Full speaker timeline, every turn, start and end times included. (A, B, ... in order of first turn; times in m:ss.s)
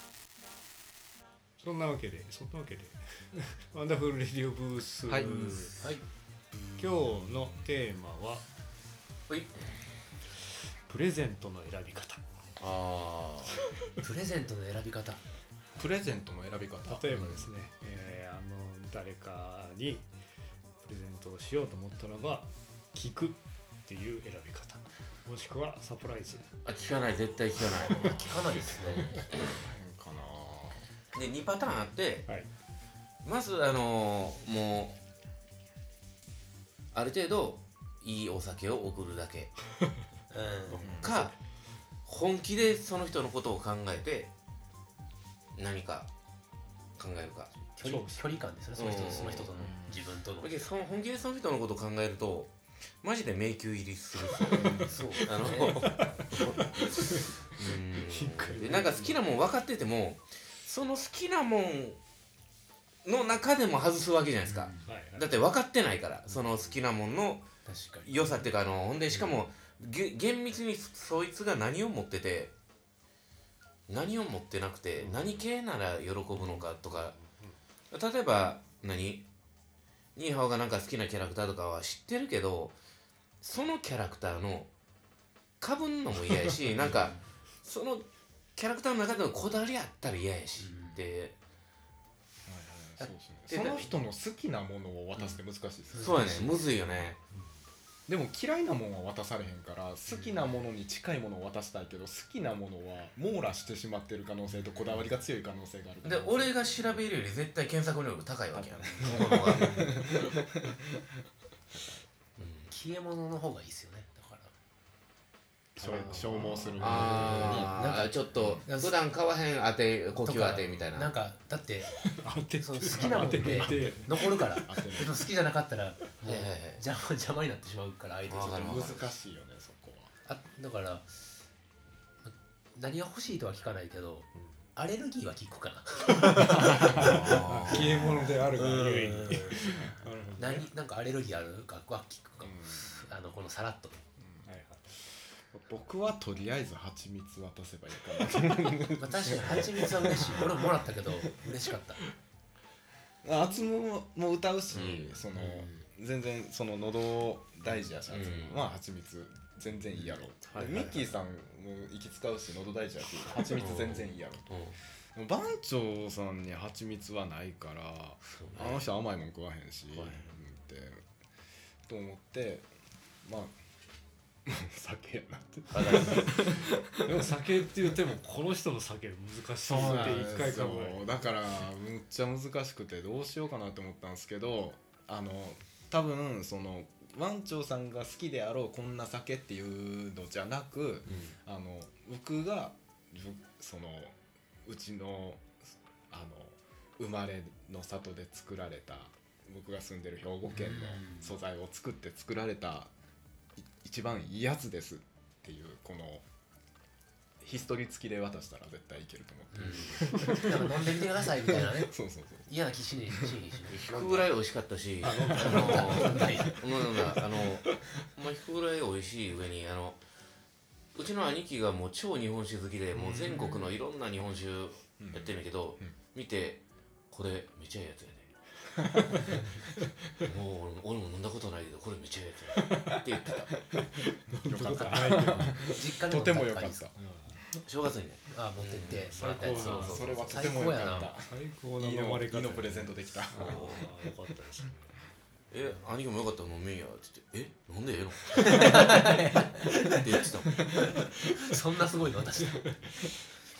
0:01.6-0:05.8 A
0:05.1-0:05.6 B
0:06.8-0:08.5 A
0:09.3-0:09.5 C
0:10.9-0:12.2 A
0:12.6-0:13.6 C
0:14.0-0:15.2 D
0:15.8-0:17.2 B
0:16.8-0:20.1 A
0:20.8-0:26.5 A
0:26.6-0:28.1 C
0:28.0-0:29.3 D
0:29.6-0:30.9 B
0:31.1-0:32.3 C
0:33.2-0:35.0 C
0:36.9-0:39.5 C
0:40.3-0:41.0 D
0:40.8-0:41.2 B
0:41.0-0:41.3 C
0:42.0-0:44.3 C
0:45.6-0:46.1 C
0:47.0-0:47.5 C
0:47.8-0:50.7 D
0:47.8-0:48.2 A
0:48.8-0:49.7 C
0:49.6-0:50.0 B
0:50.4-1:02.0 C
0:54.4-0:59.2 A
0:54.5-0:54.9 B
0:54.8-0:56.0 D
1:03.0-1:07.5 C
1:04.4-1:04.9 D
1:04.8-1:05.3 A
1:07.6-1:08.5 D
1:08.0-1:12.5 C
1:13.9-1:17.2 C
1:16.4-1:17.6 A
1:17.9-1:19.3 C
1:20.2-1:22.8 C
1:23.4-1:24.7 C
1:25.6-1:31.4 C
1:26.8-1:27.1 B
1:30.6-1:31.0 D
1:32.5-1:36.5 B
1:33.5-1:34.0 C
1:35.9-1:36.7 D
1:36.0-1:37.2 C
1:38.1-1:46.9 B
1:40.1-1:40.4 D
1:46.0-1:49.8 C
1:48.5-1:50.8 B
1:52.4-1:52.7 C
1:52.7-1:54.5 D
1:55.8-1:57.1 A
1:55.8-1:57.8 B
1:55.8-2:01.1 C
1:57.2-1:59.1 D
2:00.2-2:02.0 D
2:02.2-2:04.6 A
2:02.6-2:09.0 D
2:02.9-2:05.2 B
2:06.2-2:06.8 C
2:08.3-2:09.0 C
2:08.6-2:10.1 B
2:10.2-2:11.2 D
2:12.2-2:19.8 D
2:16.2-2:20.7 A
2:16.9-2:17.5 B
2:17.0-2:18.1 C
2:20.4-2:24.0 D
2:22.4-2:23.1 B
2:24.2-2:24.5 B
2:24.4-2:25.0 A
2:25.6-2:31.4 B
2:29.0-2:32.0 D
2:33.2-2:44.5 B
2:34.7-2:35.7 C
2:38.1-2:38.7 C
2:40.0-2:41.0 C
2:43.4-2:44.8 C
2:45.1-2:51.0 B
2:48.2-2:48.8 C
2:49.9-2:50.3 C
2:51.9-2:52.7 B
2:53.2-2:53.6 B
2:54.5-2:57.3 B
2:55.7-2:56.3 C
2:57.0-3:01.1 A
2:59.6-3:14.1 B
3:14.7-3:22.9 B
3:20.5-3:21.4 D
3:23.6-3:26.2 B
3:27.4-3:32.5 B
3:29.5-3:31.9 D
3:32.5-3:34.4 D
3:33.7-3:40.0 C
3:35.0-3:36.4 A
3:35.3-3:36.6 D
3:41.0-3:48.3 C
3:43.0-3:43.7 B
3:45.0-3:46.0 B
3:49.0-3:49.6 B
3:50.2-3:53.5 C
3:52.6-3:53.0 B
3:53.5-3:57.0 B
3:54.3-3:55.7 A
3:54.7-3:56.9 D
3:57.0-3:57.5 A
3:57.6-4:00.6 C
3:58.3-4:01.1 D
3:59.1-4:00.1 A
3:59.6-4:03.9 B
4:01.1-4:05.1 A
4:03.4-4:03.9 C
4:05.5-4:09.0 C
4:08.4-4:12.7 D
4:09.9-4:11.0 C